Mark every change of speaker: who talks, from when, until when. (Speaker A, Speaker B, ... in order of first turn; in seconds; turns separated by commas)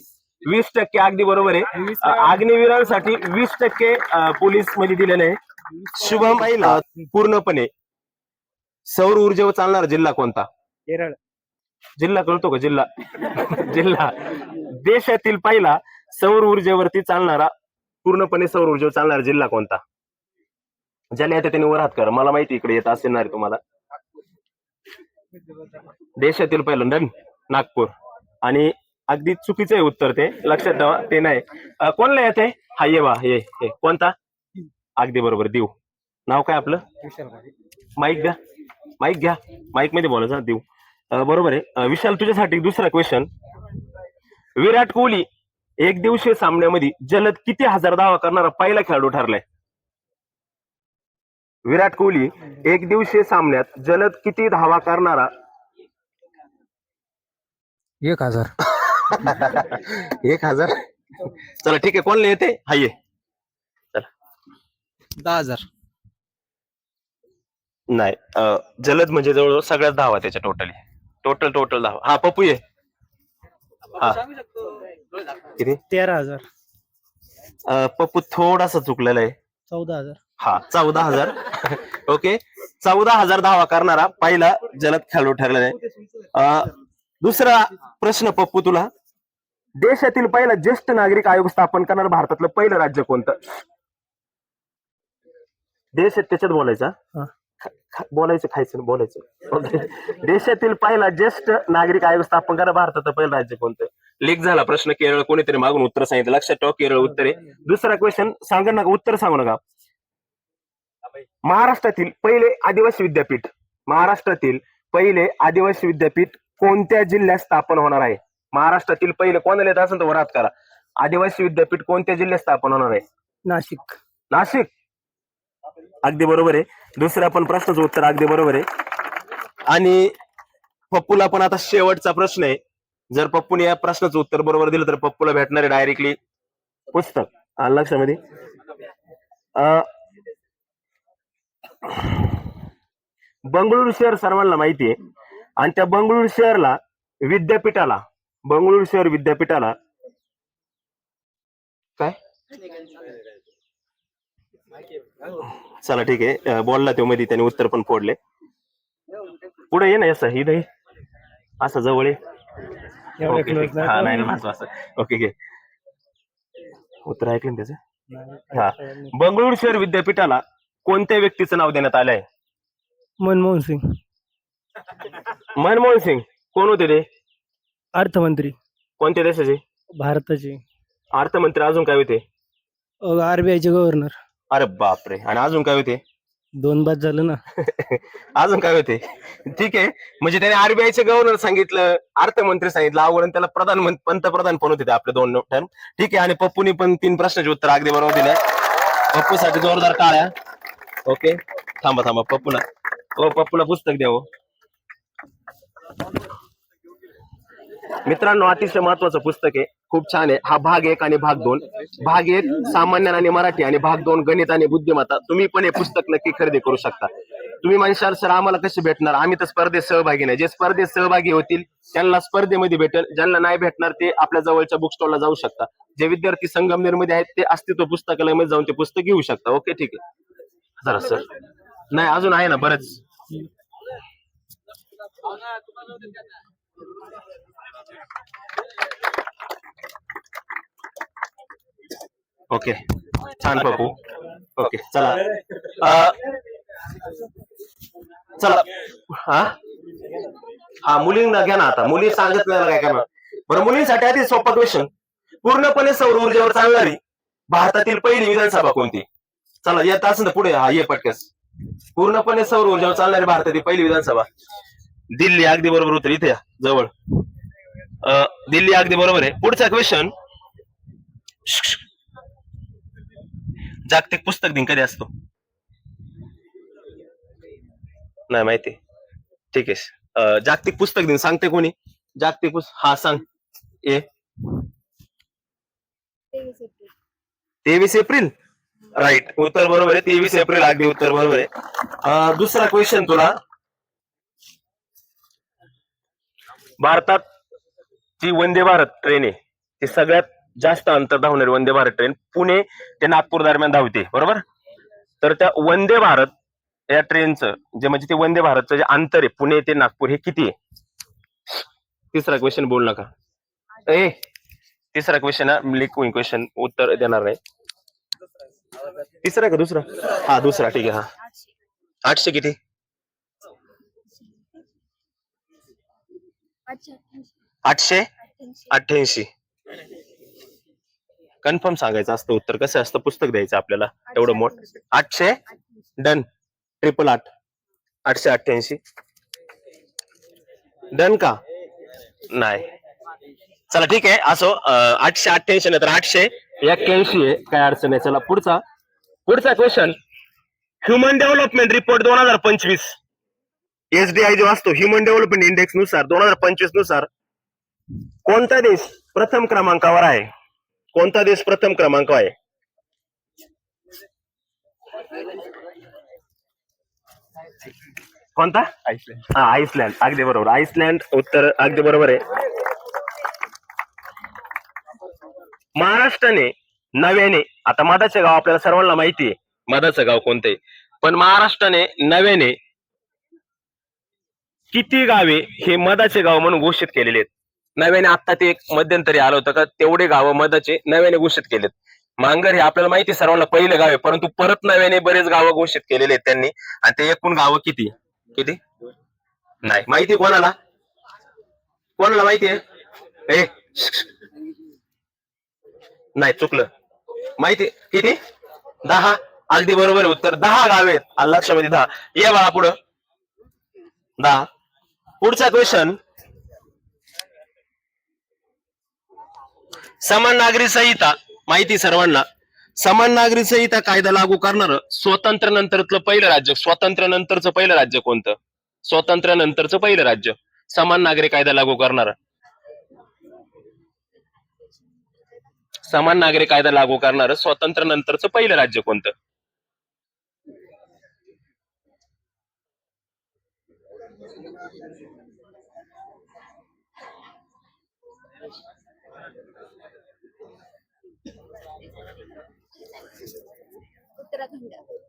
Speaker A: 0.4-7.7, Speaker A: 8.9-10.5, Speaker B: 10.9-11.2, Speaker A: 12.0-17.5, Speaker A: 18.0-19.8, Speaker A: 21.1-23.6, Speaker A: 26.2-34.1, Speaker A: 35.0-35.7, Speaker A: 36.3-36.9, Speaker A: 38.0-38.4, Speaker A: 39.0-43.3, Speaker A: 44.6-45.3, Speaker A: 45.8-49.4, Speaker A: 51.7-55.3, Speaker B: 58.0-58.5, Speaker A: 58.6-60.9, Speaker A: 61.5-62.9, Speaker B: 65.2-65.7, Speaker A: 67.9-72.6, Speaker A: 74.0-74.2, Speaker B: 75.9-76.5, Speaker A: 77.7-79.3, Speaker B: 79.7-80.2, Speaker A: 80.4-85.8, Speaker A: 86.3-86.7, Speaker A: 87.2-88.9, Speaker A: 89.8-93.4, Speaker A: 96.0-97.0, Speaker A: 97.6-109.6, Speaker A: 111.5-123.0, Speaker B: 123.5-124.0, Speaker A: 124.3-124.7, Speaker A: 126.0-128.7, Speaker A: 129.7-130.1, Speaker A: 130.9-132.6, Speaker A: 133.1-136.2, Speaker A: 136.9-138.2, Speaker A: 139.6-139.9, Speaker A: 141.8-142.4, Speaker A: 143.5-145.0, Speaker A: 145.6-149.7, Speaker A: 155.8-158.2, Speaker A: 159.7-160.7, Speaker A: 161.6-162.2, Speaker B: 163.2-164.4, Speaker A: 163.3-165.3, Speaker A: 167.1-167.8, Speaker B: 168.1-169.1, Speaker A: 168.5-172.2, Speaker B: 173.2-174.0, Speaker A: 175.5-177.1, Speaker B: 178.0-178.6, Speaker A: 179.0-179.6, Speaker B: 180.0-180.6, Speaker A: 181.1-182.2, Speaker B: 183.1-184.2, Speaker A: 184.5-186.0, Speaker B: 186.6-187.4, Speaker A: 187.6-198.4, Speaker A: 199.1-200.3, Speaker A: 201.1-202.6, Speaker A: 203.2-204.2, Speaker A: 208.1-217.1, Speaker A: 217.6-230.0, Speaker A: 230.8-231.3, Speaker A: 231.9-233.0, Speaker A: 242.5-242.8, Speaker A: 243.3-244.0, Speaker A: 244.6-246.2, Speaker A: 248.4-249.6, Speaker A: 250.8-254.9, Speaker A: 255.4-257.0, Speaker A: 257.5-259.1, Speaker A: 259.6-261.3, Speaker A: 261.9-264.3, Speaker A: 265.1-266.9, Speaker A: 268.0-270.1, Speaker A: 271.5-271.8, Speaker A: 273.9-275.1, Speaker A: 278.3-278.8, Speaker A: 279.5-283.2, Speaker C: 286.3-286.9, Speaker A: 287.6-288.3, Speaker A: 289.0-293.4, Speaker A: 296.8-297.2, Speaker A: 298.2-304.4, Speaker A: 305.2-306.3, Speaker A: 306.9-310.5, Speaker A: 312.1-313.1, Speaker A: 313.9-314.2, Speaker A: 314.9-317.4, Speaker A: 319.2-321.1, Speaker A: 322.1-322.6, Speaker C: 326.7-327.3, Speaker A: 327.6-328.1, Speaker C: 328.2-328.7, Speaker A: 328.7-329.3, Speaker A: 331.4-335.4, Speaker C: 334.1-334.8, Speaker A: 336.0-336.3, Speaker A: 336.8-337.3, Speaker A: 338.1-338.8, Speaker A: 340.9-341.4, Speaker A: 342.3-342.6, Speaker A: 343.7-348.6, Speaker A: 349.3-350.0, Speaker A: 350.8-353.0, Speaker A: 353.9-357.1, Speaker A: 358.3-360.3, Speaker A: 360.9-362.3, Speaker A: 368.4-368.7, Speaker A: 369.3-372.2, Speaker A: 375.8-382.6, Speaker A: 384.7-398.6, Speaker A: 399.6-400.5, Speaker A: 402.0-402.6, Speaker A: 403.3-404.1, Speaker A: 406.2-406.7, Speaker A: 407.4-408.2, Speaker A: 408.8-412.8, Speaker A: 414.2-414.4, Speaker A: 415.2-416.0, Speaker A: 420.0-422.2, Speaker A: 422.8-428.4, Speaker A: 428.9-432.1, Speaker A: 435.9-439.1, Speaker C: 454.2-454.8